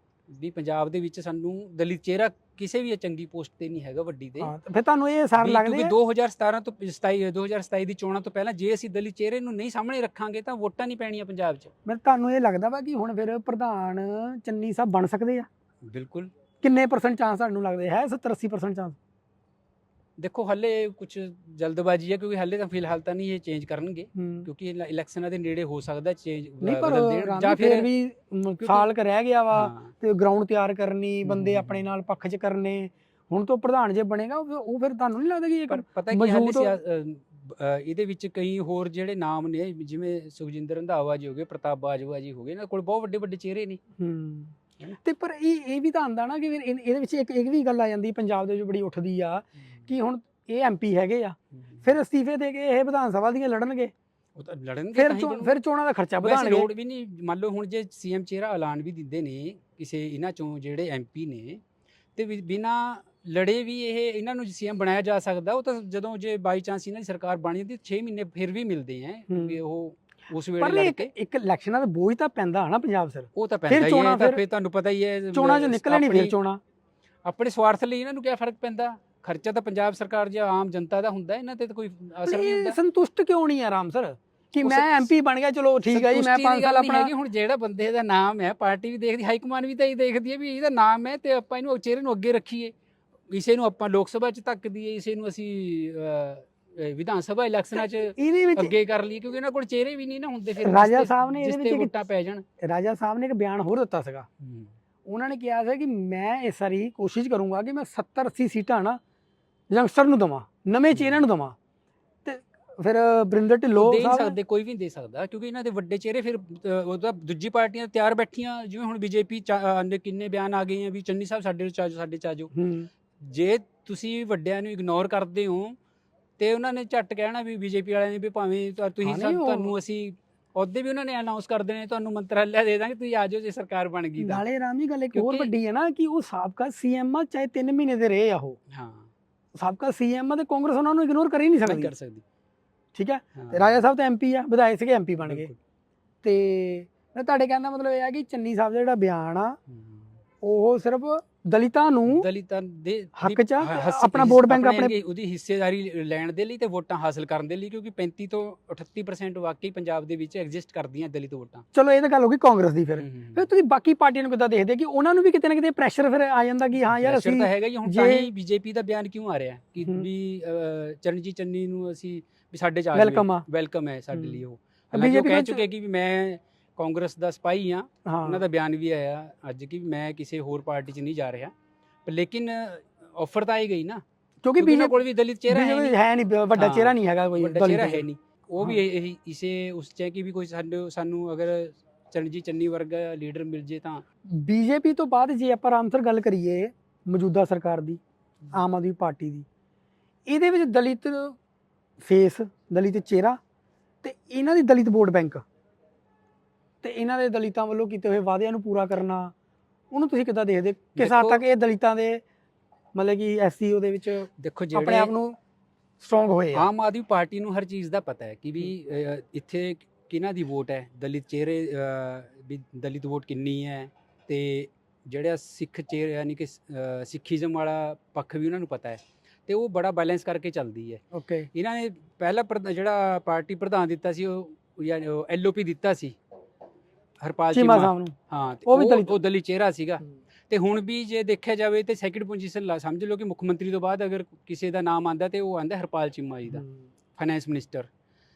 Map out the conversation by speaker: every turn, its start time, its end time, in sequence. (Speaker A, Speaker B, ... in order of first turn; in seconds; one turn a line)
Speaker A: 0.3-4.5
Speaker B: 4.4-5.9
Speaker A: 5.4-11.7
Speaker B: 11.8-15.5
Speaker A: 15.8-16.3
Speaker B: 16.6-19.0
Speaker A: 20.2-27.9
Speaker B: 24.1-24.5
Speaker B: 26.6-36.7
Speaker A: 28.6-28.9
Speaker A: 29.5-29.9
Speaker A: 31.2-31.8
Speaker A: 35.7-43.8
Speaker B: 44.0-53.9
Speaker A: 51.5-51.8
Speaker A: 54.3-55.5
Speaker B: 54.9-56.7
Speaker A: 56.2-61.6
Speaker A: 62.1-71.1
Speaker B: 69.3-69.6
Speaker B: 70.6-74.4
Speaker A: 73.3-76.3
Speaker B: 75.3-76.6
Speaker A: 77.2-82.8
Speaker B: 82.2-87.1
Speaker A: 84.6-85.1
Speaker A: 85.9-92.7
Speaker A: 93.3-102.4
Speaker B: 97.8-98.7
Speaker B: 100.6-101.9
Speaker B: 102.6-104.2
Speaker A: 104.4-104.7
Speaker B: 105.0-109.0
Speaker B: 109.7-111.5
Speaker A: 110.9-111.2
Speaker B: 112.2-114.3
Speaker A: 113.8-122.5
Speaker B: 122.5-122.9
Speaker A: 123.2-125.8
Speaker A: 126.4-134.4
Speaker B: 129.0-129.7
Speaker B: 134.2-138.6
Speaker A: 135.1-135.5
Speaker A: 138.7-139.1
Speaker B: 139.6-141.9
Speaker A: 141.7-142.2
Speaker B: 142.9-145.5
Speaker A: 143.3-143.8
Speaker A: 145.2-145.6
Speaker B: 146.2-149.6
Speaker A: 149.7-150.2
Speaker B: 150.4-152.3
Speaker A: 152.1-161.6
Speaker B: 153.2-154.9
Speaker B: 161.7-168.3
Speaker A: 163.0-163.4
Speaker A: 167.0-181.5
Speaker B: 172.9-173.4
Speaker B: 174.1-174.4
Speaker B: 174.9-175.6
Speaker B: 178.1-178.4
Speaker A: 182.1-184.0
Speaker B: 184.4-185.0
Speaker A: 184.6-185.9
Speaker B: 185.5-188.1
Speaker A: 186.5-194.0
Speaker B: 194.3-198.0
Speaker B: 198.5-199.4
Speaker B: 200.3-201.3
Speaker B: 202.0-203.4
Speaker B: 204.0-205.4
Speaker B: 206.8-209.3
Speaker B: 209.9-212.2
Speaker A: 210.9-211.4
Speaker B: 212.9-215.4
Speaker A: 214.4-215.1
Speaker B: 216.0-216.7
Speaker A: 216.5-231.0
Speaker B: 231.1-231.5
Speaker A: 231.5-236.2
Speaker A: 237.2-246.6
Speaker B: 237.5-238.2
Speaker B: 238.7-239.2
Speaker A: 247.2-247.9